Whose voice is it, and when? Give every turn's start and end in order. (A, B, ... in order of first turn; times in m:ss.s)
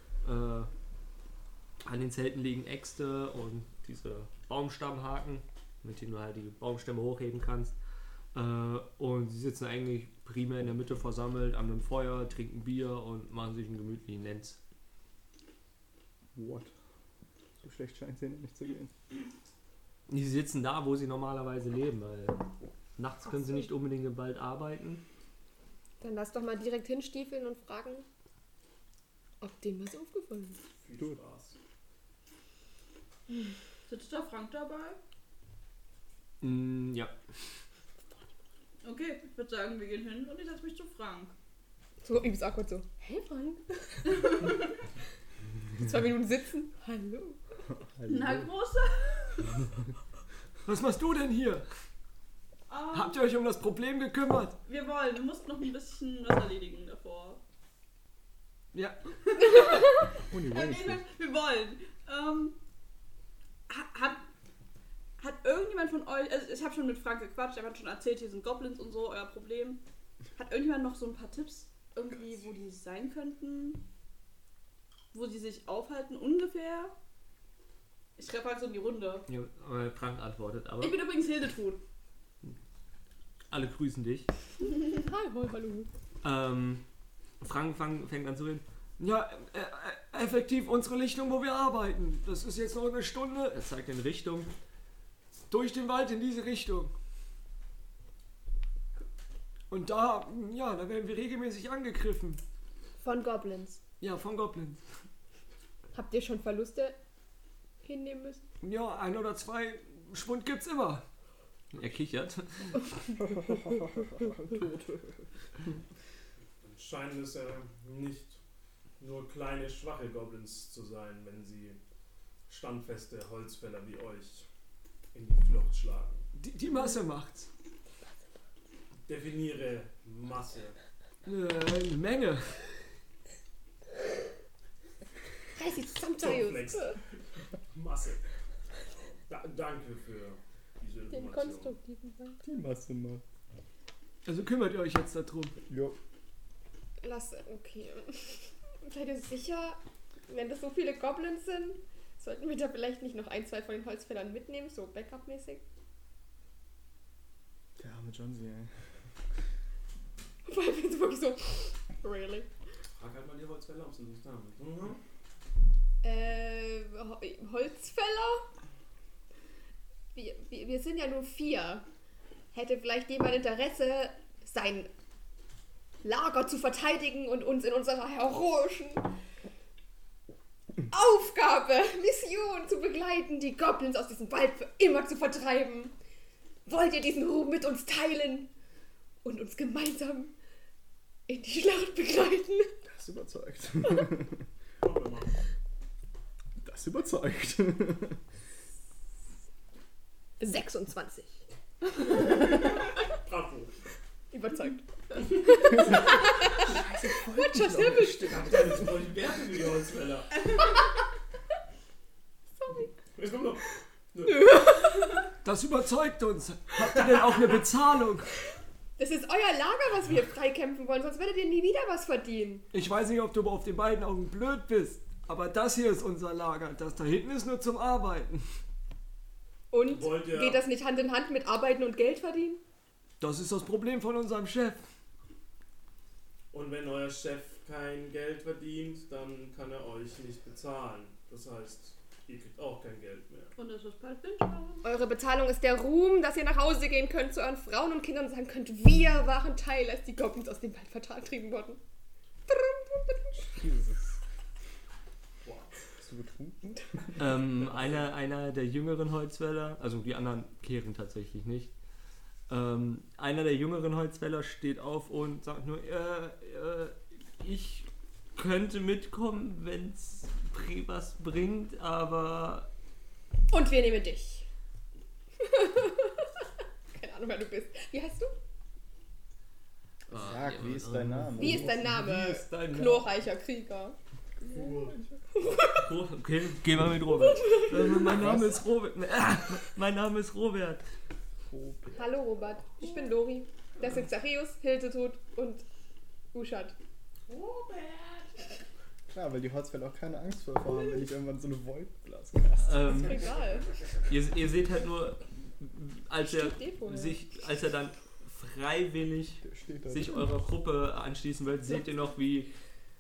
0:00.2-0:00.7 A
0:01.8-0:07.7 A
0:08.3-0:14.6 A
0:16.4-0:16.7 B
0:17.6-0:18.9 B
0:20.1-0:22.4 A
0:23.0-0:25.0 A
0:26.0-0:28.0 C
0:29.4-0:30.6 C
0:30.8-0:31.6 D
0:33.9-0:35.0 E
0:36.4-0:37.1 A
0:38.8-0:41.3 E
0:42.0-0:44.6 C
0:45.8-0:47.4 C
0:47.8-0:48.5 B
0:48.1-0:49.5 E
0:50.7-0:51.7 A
0:52.7-0:53.2 E
0:53.0-0:54.6 A
0:54.7-0:57.4 E
0:59.2-1:02.6 E
1:00.2-1:01.0 B
1:03.7-1:04.2 E
1:05.2-1:09.8 E
1:10.4-1:13.8 E
1:15.1-1:17.0 E
1:18.2-1:19.3 E
1:19.3-1:21.0 A
1:20.8-1:21.8 E
1:23.5-1:24.3 A
1:24.8-1:25.9 C
1:26.2-1:26.8 A
1:27.4-1:34.5 A
1:35.5-1:36.9 A
1:39.7-1:42.4 A
1:43.0-1:43.8 C
1:44.0-1:44.8 A
1:45.9-1:47.0 C
1:47.8-1:48.4 C
1:48.6-1:51.0 A
1:51.7-1:52.8 A
1:53.2-1:55.3 B
1:56.6-1:58.4 D
1:59.0-2:01.8 D
2:02.5-2:04.5 D
2:05.1-2:06.3 D
2:06.4-2:07.5 A
2:09.1-2:10.8 D
2:11.3-2:12.6 A
2:15.6-2:17.0 C
2:16.1-2:17.2 D
2:17.7-2:18.2 D
2:19.3-2:21.8 D
2:21.1-2:22.4 C
2:22.4-2:23.2 B
2:24.2-2:25.6 A
2:25.7-2:26.0 B
2:27.0-2:35.6 C
2:37.8-2:38.7 B
2:40.4-2:42.5 C
2:43.0-2:45.0 D
2:46.0-2:48.5 C
2:50.1-2:51.9 C
2:52.5-2:54.9 C
2:56.0-2:59.1 C
3:00.9-3:06.0 C
3:06.7-3:08.5 C
3:09.2-3:10.3 C
3:11.3-3:12.7 C
3:12.8-3:14.5 B
3:14.8-3:15.3 D
3:16.6-3:18.2 B
3:20.4-3:21.4 C
3:22.1-3:22.4 C
3:23.1-3:23.7 D
3:24.3-3:28.4 C
3:26.6-3:28.5 B
3:28.2-3:30.5 D
3:32.6-3:33.0 C
3:33.1-3:34.6 D
3:34.3-3:35.3 C
3:35.4-3:38.3 A
3:39.0-3:42.7 C
3:42.7-3:48.4 A
3:49.7-3:52.6 C
3:49.8-3:50.7 D
3:53.2-3:54.8 A
3:56.5-4:03.5 D
4:03.6-4:04.9 E
4:04.8-4:11.8 C
4:12.5-4:13.6 C
4:13.6-4:14.0 B
4:15.4-4:15.7 D
4:16.0-4:17.2 B
4:17.2-4:21.7 A
4:17.6-4:18.0 D
4:22.5-4:32.7 A
4:33.5-4:34.5 C
4:35.4-4:38.4 C
4:40.1-4:43.1 A
4:40.1-4:42.0 B
4:41.4-4:44.0 C
4:44.5-4:45.2 B
4:44.5-4:44.9 D
4:45.3-4:45.9 C
4:45.8-4:50.8 A
4:47.1-4:48.3 C
4:48.1-4:48.6 B
4:51.5-4:52.1 B
4:51.9-4:55.6 C
4:56.3-4:56.8 C
4:57.3-4:58.5 D
4:59.1-5:03.2 B
5:02.6-5:03.2 A
5:02.9-5:03.7 C
5:04.1-5:12.5 A
5:06.2-5:07.2 C
5:09.4-5:10.3 B